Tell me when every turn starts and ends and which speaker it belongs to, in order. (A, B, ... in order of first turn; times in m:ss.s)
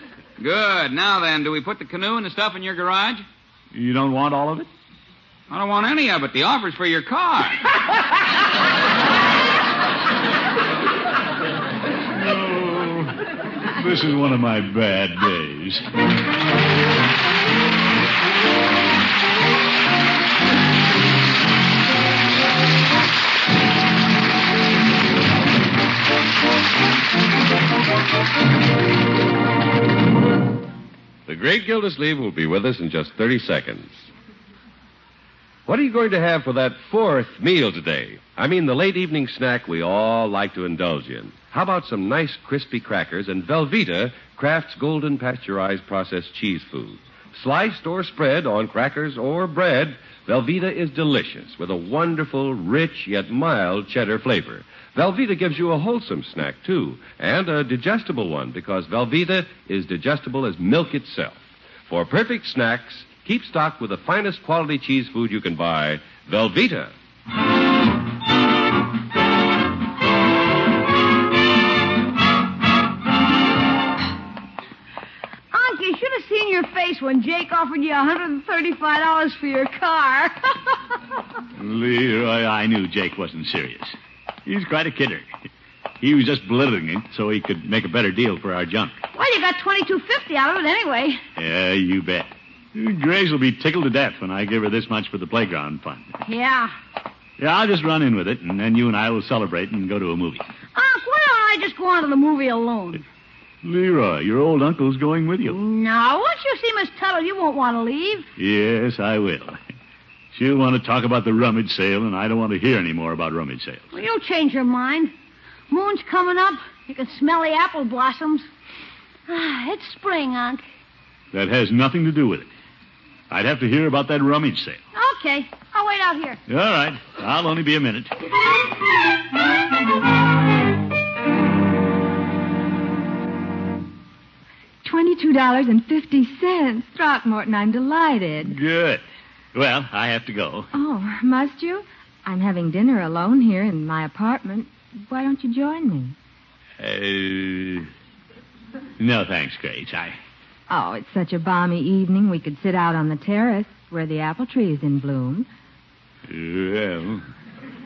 0:00.4-0:03.2 A
0:03.7-0:04.7 B
0:05.5-0:07.6 A
0:12.1-0:13.2 B
0:13.7-0:15.9 B
0:31.3-0:34.1 C
0:35.6-1:06.9 C
1:15.5-1:20.6 D
1:21.6-1:25.3 B
1:26.0-1:29.0 B
1:29.1-1:31.2 D
1:31.4-1:36.1 B
1:36.2-1:36.7 D
1:37.4-1:40.4 B
1:40.7-1:43.0 D
1:43.6-1:45.6 B
1:45.5-1:48.3 D
1:48.4-1:49.6 B
1:50.3-1:53.9 B
1:53.9-1:55.1 D
1:55.7-1:58.5 D
1:59.3-2:00.6 D
2:01.3-2:02.5 B
2:03.3-2:04.8 B
2:04.9-2:06.4 D
2:06.5-2:08.1 B
2:14.8-2:18.6 E
2:18.4-2:19.0 B
2:19.5-2:20.7 B
2:20.7-2:26.1 E
2:26.8-2:27.9 B
2:29.0-2:30.2 B
2:30.7-2:35.5 E
2:36.3-2:37.2 B